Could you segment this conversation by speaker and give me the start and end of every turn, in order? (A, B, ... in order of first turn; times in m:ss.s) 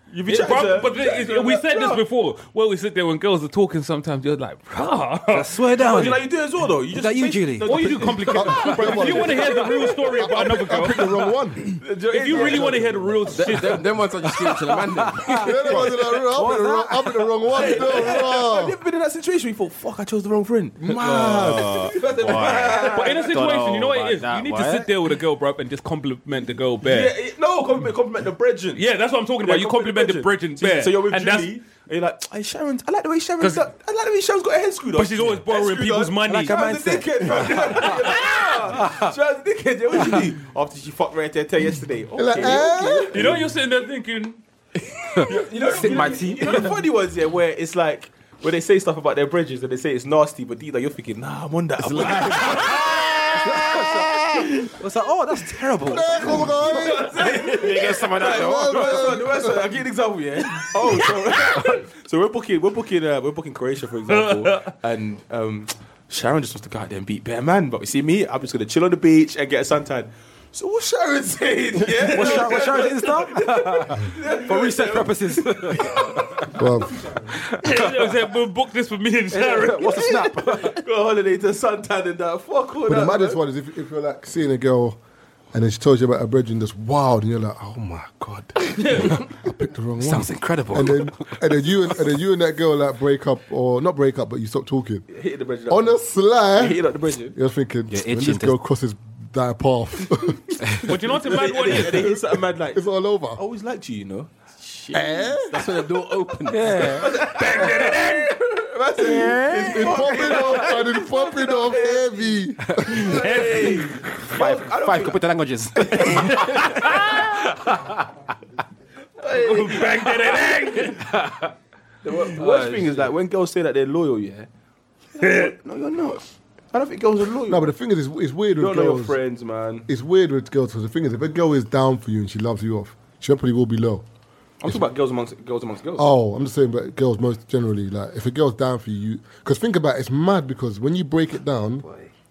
0:00.1-0:02.0 A
0:00.3-0:06.0 B
0:05.3-0:06.2 C
0:05.8-0:10.5 A
0:06.9-0:07.7 C
0:07.6-0:11.1 B
0:07.7-0:11.7 D
0:11.8-0:12.8 A
0:12.1-0:13.9 B
0:12.3-0:13.5 D
0:13.4-0:15.5 E
0:14.6-0:17.7 C
0:15.4-0:18.8 D
0:17.5-0:23.4 A
0:20.9-0:27.1 B
0:22.2-0:25.0 C
0:26.8-0:28.8 A
0:28.8-0:31.5 B
0:29.4-0:43.4 A
0:33.4-0:33.7 B
0:34.9-0:36.6 B
0:36.3-0:38.2 C
0:37.6-0:38.4 B
0:38.8-0:39.1 C
0:42.2-0:43.4 D
0:43.1-0:44.4 B
0:45.1-0:46.8 C
0:45.2-0:53.2 A
0:51.8-0:59.3 C
0:53.0-0:54.5 D
0:55.9-0:57.6 D
0:56.2-1:16.2 A
0:58.2-0:59.7 D
1:04.1-1:04.7 B
1:12.0-1:16.5 C
1:12.3-1:13.0 B
1:16.5-1:17.1 D
1:17.6-1:18.0 C
1:17.6-1:20.2 B
1:19.3-1:20.8 C
1:20.7-1:23.4 A
1:22.9-1:25.0 D
1:25.5-1:35.1 D
1:28.8-1:29.1 B
1:30.0-1:31.4 C
1:35.1-1:35.9 A
1:35.7-1:36.8 D
1:36.5-1:37.4 A
1:37.3-1:43.4 D
1:37.9-1:38.6 C
1:40.8-1:42.2 B
1:41.2-1:42.8 A
1:43.4-1:45.4 A
1:44.9-1:45.6 D
1:45.5-1:46.8 E
1:46.5-1:47.2 C
1:46.8-1:52.4 A
1:47.4-1:48.3 B
1:49.6-1:53.2 D
1:52.7-1:53.0 C
1:53.0-1:54.0 B
1:53.0-1:55.2 A
1:54.2-1:58.1 C
1:55.8-1:56.4 A
1:56.0-1:57.3 B
1:59.2-2:00.9 A
1:59.3-2:01.1 B
2:01.1-2:01.5 C
2:02.0-2:04.5 A
2:02.4-2:03.0 C
2:05.2-2:07.7 A
2:05.2-2:05.5 B
2:07.5-2:09.2 D
2:08.6-2:09.9 A
2:09.9-2:14.0 D
2:14.6-2:16.1 A
2:16.0-2:21.9 D
2:21.8-2:22.1 C